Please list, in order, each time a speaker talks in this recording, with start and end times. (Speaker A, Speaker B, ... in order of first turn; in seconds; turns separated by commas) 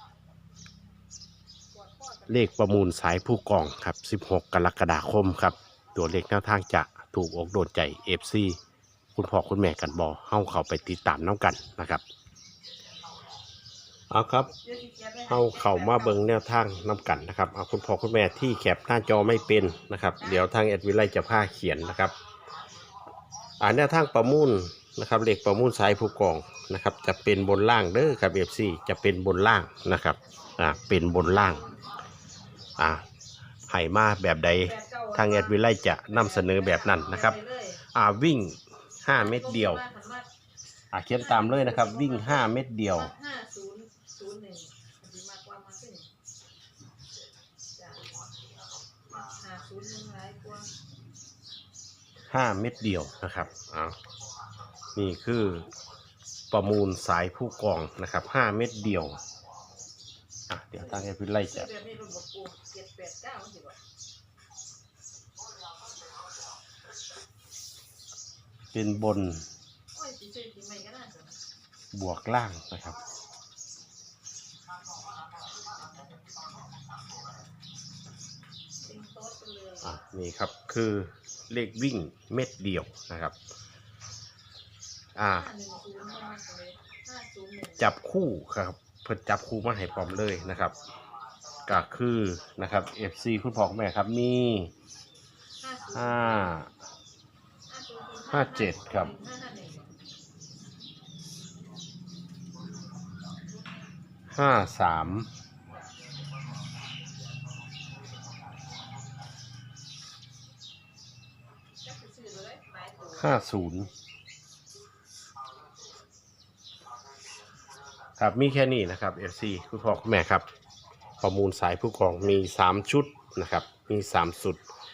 Speaker A: 1.8-2.5, Speaker B: 2.3-8.6, Speaker B: 9.2-12.0, Speaker B: 14.1-14.5, Speaker A: 14.6-16.1, Speaker B: 15.3-22.1, Speaker B: 23.6-31.6, Speaker B: 32.8-33.0, Speaker B: 33.7-37.4, Speaker A: 34.6-35.6, Speaker A: 36.1-37.8, Speaker B: 37.9-39.8, Speaker A: 39.1-40.3, Speaker B: 40.9-43.1, Speaker A: 41.2-46.1, Speaker A: 47.8-48.1, Speaker A: 49.1-50.7, Speaker B: 52.3-54.0, Speaker B: 55.0-55.7, Speaker B: 56.5-59.2, Speaker B: 60.5-61.7, Speaker A: 61.0-63.8, Speaker B: 68.7-69.5, Speaker A: 69.9-71.4, Speaker B: 71.9-73.0, Speaker A: 78.8-79.9, Speaker B: 79.8-83.3, Speaker B: 85.2-85.5, Speaker A: 85.2-87.8, Speaker B: 87.8-90.8, Speaker B: 91.7-94.7, Speaker A: 95.6-96.5, Speaker B: 95.9-96.7, Speaker A: 97.7-99.9, Speaker B: 98.3-99.1, Speaker B: 104.3-105.3, Speaker A: 111.8-113.4, Speaker B: 113.2-113.9, Speaker B: 118.2-120.5, Speaker B: 121.2-124.6